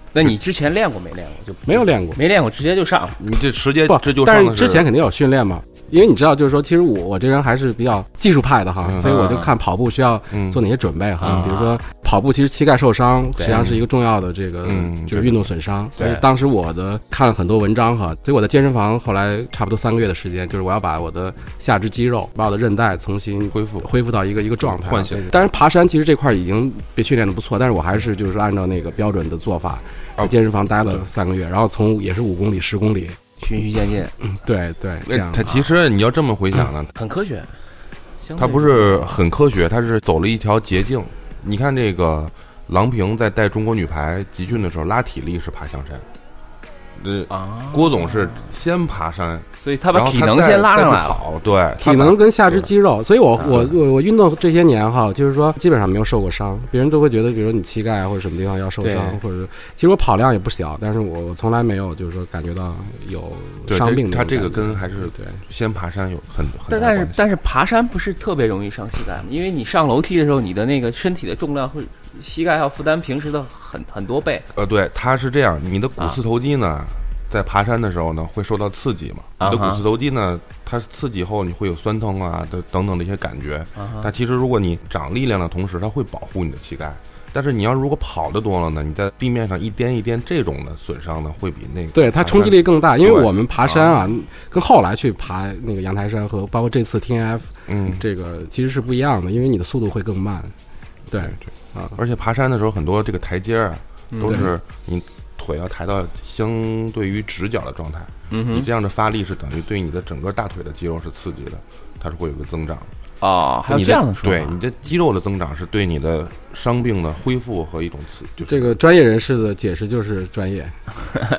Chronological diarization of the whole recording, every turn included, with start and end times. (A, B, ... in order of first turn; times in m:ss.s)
0:00.1-0:03.2 A
0:01.6-0:02.2 B
0:03.2-0:04.9 C
0:03.9-0:33.2 B
0:08.8-0:09.3 C
0:09.0-0:09.5 A
0:10.3-0:10.6 C
0:11.2-0:11.8 A
0:13.4-0:13.7 A
0:13.4-0:13.8 C
0:14.6-0:15.5 C
0:16.0-0:16.2 A
0:23.5-0:23.9 C
0:24.6-0:25.3 C
0:30.2-0:31.0 C
0:33.4-0:34.1 A
0:34.3-0:35.4 B
0:35.0-0:36.9 C
0:36.9-0:37.6 A
0:38.2-0:39.1 A
0:38.4-0:46.0 C
0:47.0-0:52.7 C
0:47.3-0:48.4 A
0:49.6-0:51.2 A
0:51.8-1:05.4 B
0:58.8-0:59.2 A
1:03.7-1:07.2 C
1:06.7-1:14.4 A
1:14.5-1:33.3 C
1:19.4-1:19.8 A
1:23.8-1:24.1 A
1:31.9-1:40.5 B
1:33.6-1:34.0 A
1:37.7-1:38.0 C
1:41.1-1:42.0 B
1:41.1-1:52.9 C
1:44.1-1:44.5 A
1:44.2-1:44.5 B
1:48.3-1:48.7 A
1:53.2-1:54.6 A
1:53.7-1:58.8 C
1:58.4-2:00.8 B